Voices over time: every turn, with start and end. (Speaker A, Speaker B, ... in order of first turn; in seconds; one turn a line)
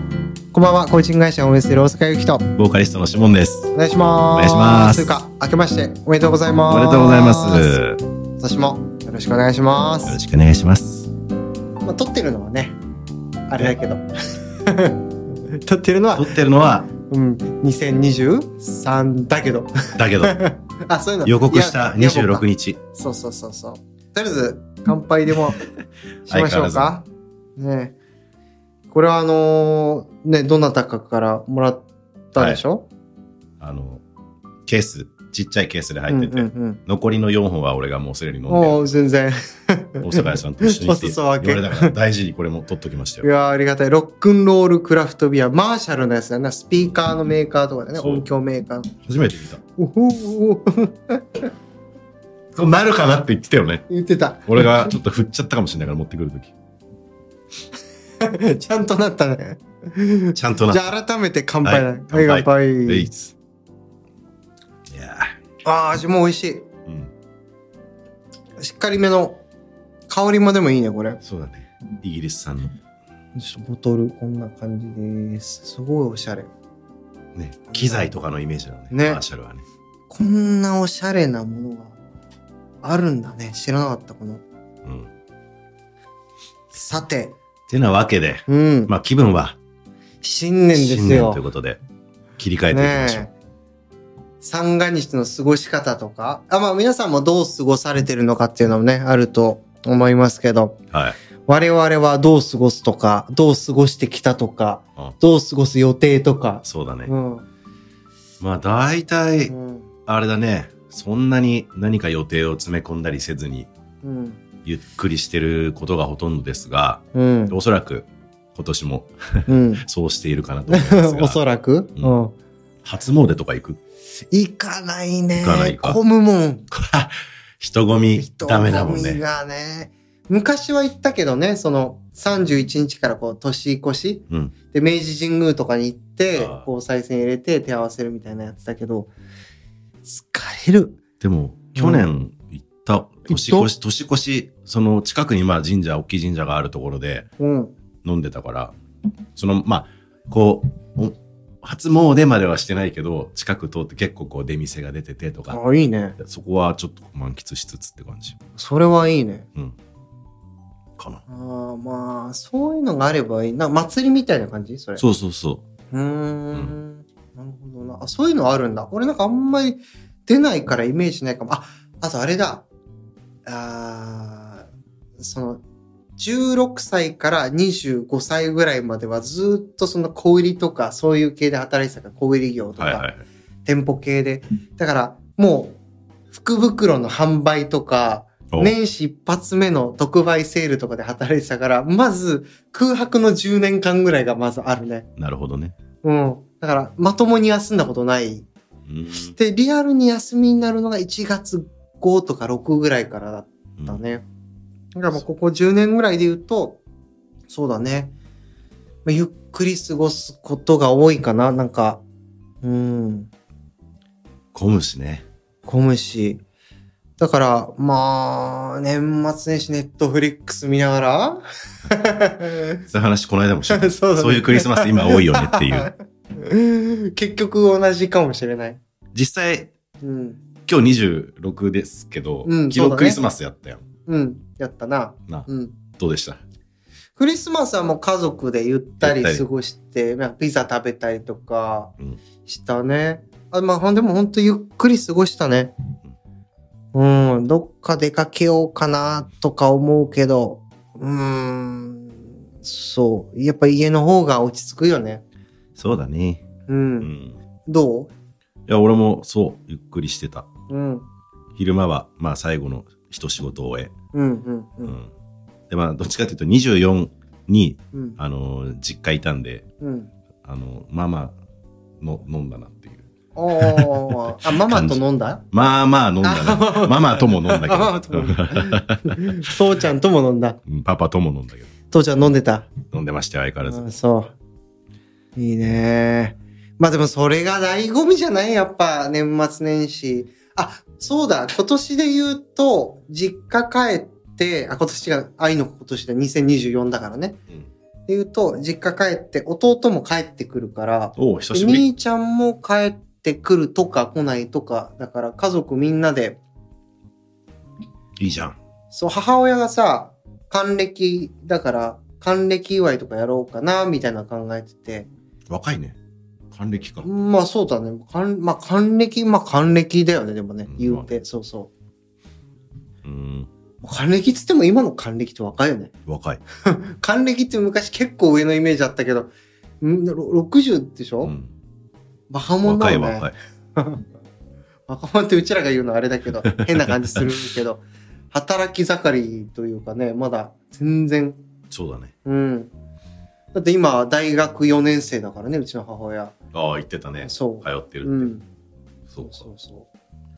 Speaker A: 0.5-2.5
Speaker B: 2.6-3.7
Speaker A: 3.7-7.8
Speaker B: 4.3-5.1
Speaker B: 6.7-8.0
Speaker A: 8.4-10.2
Speaker B: 10.1-11.1
Speaker A: 11.8-12.8
Speaker A: 13.5-14.0
Speaker A: 14.6-16.4
Speaker B: 16.1-16.9
Speaker A: 17.0-25.6
Speaker B: 19.9-20.4
Speaker B: 21.2-22.8
Speaker B: 26.3-26.9
Speaker A: 26.3-27.1
Speaker A: 27.6-27.9
Speaker A: 28.9-32.9
Speaker B: 32.4-32.6
Speaker B: 33.6-34.0
Speaker B: 34.6-39.0
Speaker A: 36.1-36.8
Speaker A: 38.5-41.9
Speaker B: 40.0-43.3
Speaker A: 43.2-48.9
Speaker B: 48.0-48.2
Speaker B: 49.0-49.6
Speaker A: 49.8-51.4
Speaker B: 52.5-53.8
Speaker A: 53.9-54.9
Speaker B: 54.5-56.5
Speaker A: 58.2-63.1
Speaker B: 60.4-60.9
Speaker B: 61.6-63.3
Speaker B: 64.9-65.3
Speaker A: 65.6-66.7
Speaker B: 66.8-67.1
Speaker A: 68.6-69.4
Speaker A: 70.1-71.2
Speaker B: 71.2-72.8
Speaker A: 73.3-76.5
Speaker B: 77.3-79.6
Speaker A: 77.7-78.1
Speaker A: 78.9-79.2
Speaker A: 80.1-82.0
Speaker A: 82.8-84.4
Speaker B: 84.8-85.1
Speaker A: 86.7-87.3
Speaker B: 87.7-89.6
Speaker A: 88.5-88.9
Speaker A: 90.2-91.4
Speaker B: 90.7-91.8
Speaker B: 92.4-93.2
Speaker A: 92.7-93.3
Speaker A: 94.4-100.8
Speaker B: 100.9-101.2
Speaker A: 101.4-107.5
Speaker B: 106.6-107.1
Speaker B: 108.4-109.5
Speaker A: 109.5-109.9
Speaker B: 110.0-113.7
Speaker A: 114.0-114.4
Speaker B: 114.6-121.4
Speaker A: 117.1-117.5
Speaker A: 119.5-119.8
Speaker A: 120.7-122.3
Speaker B: 122.8-123.8
Speaker A: 124.3-126.7
Speaker B: 125.4-126.0
Speaker B: 126.7-129.2
Speaker A: 128.1-139.1
Speaker B: 134.3-134.5
Speaker B: 136.3-136.7
Speaker A: 140.0-141.0
Speaker B: 141.2-147.3
Speaker A: 141.7-142.0
Speaker A: 143.3-143.7
Speaker A: 147.4-147.7
Speaker B: 148.0-148.8
Speaker B: 149.3-155.6
Speaker A: 155.5-156.2
Speaker B: 156.2-158.4
Speaker A: 158.6-159.5
Speaker B: 161.0-161.2
Speaker A: 161.3-165.0
Speaker B: 165.0-165.6
Speaker A: 165.9-172.7
Speaker A: 173.4-174.7
Speaker A: 175.2-175.6
Speaker A: 176.2-183.0
Speaker B: 182.8-183.2
Speaker A: 183.6-185.8
Speaker A: 186.3-195.1
Speaker B: 188.5-188.8
Speaker B: 195.2-195.7
Speaker A: 196.0-198.5
Speaker B: 198.9-199.3
Speaker A: 199.2-204.2
Speaker A: 204.9-206.8
Speaker A: 207.5-208.1
Speaker A: 209.0-212.0
Speaker A: 212.6-213.3
Speaker B: 214.5-215.2
Speaker A: 215.6-216.4
Speaker A: 217.2-222.8
Speaker B: 222.9-225.9
Speaker A: 223.7-228.8
Speaker B: 229.1-229.7
Speaker A: 230.0-230.4
Speaker B: 230.7-233.8
Speaker A: 232.4-233.2
Speaker A: 234.1-235.7
Speaker B: 235.3-236.4
Speaker A: 237.2-241.9
Speaker B: 239.0-239.4
Speaker A: 242.4-245.7
Speaker A: 246.9-255.2
Speaker B: 255.8-256.4
Speaker A: 256.7-257.1
Speaker B: 257.0-257.4
Speaker A: 257.6-258.1
Speaker B: 258.7-260.5
Speaker A: 260.7-261.0
Speaker B: 261.5-263.9
Speaker A: 264.1-265.0
Speaker B: 264.8-265.1
Speaker B: 265.7-269.7
Speaker A: 267.9-268.2
Speaker A: 269.8-270.1
Speaker B: 270.4-271.4
Speaker B: 272.0-273.1
Speaker A: 273.3-275.4
Speaker B: 273.6-279.5
Speaker A: 276.2-280.6
Speaker B: 280.6-281.7
Speaker A: 281.9-282.7
Speaker B: 282.9-283.9
Speaker A: 283.6-284.3
Speaker A: 285.4-297.4
Speaker A: 298.1-306.4
Speaker B: 301.2-301.9
Speaker B: 308.2-308.6
Speaker A: 308.9-315.1
Speaker B: 315.5-316.0
Speaker B: 316.5-317.1
Speaker A: 317.0-321.7
Speaker B: 320.6-321.2
Speaker B: 323.0-323.5
Speaker A: 323.8-325.9
Speaker B: 326.1-326.4
Speaker A: 326.6-331.3
Speaker B: 331.2-331.5
Speaker A: 332.3-334.1
Speaker B: 332.6-333.3
Speaker A: 334.9-341.4
Speaker B: 336.7-337.2
Speaker B: 341.7-342.1
Speaker A: 342.2-342.7
Speaker A: 343.5-346.4
Speaker B: 346.5-348.3
Speaker A: 347.2-348.4
Speaker B: 349.1-349.5
Speaker A: 349.2-349.9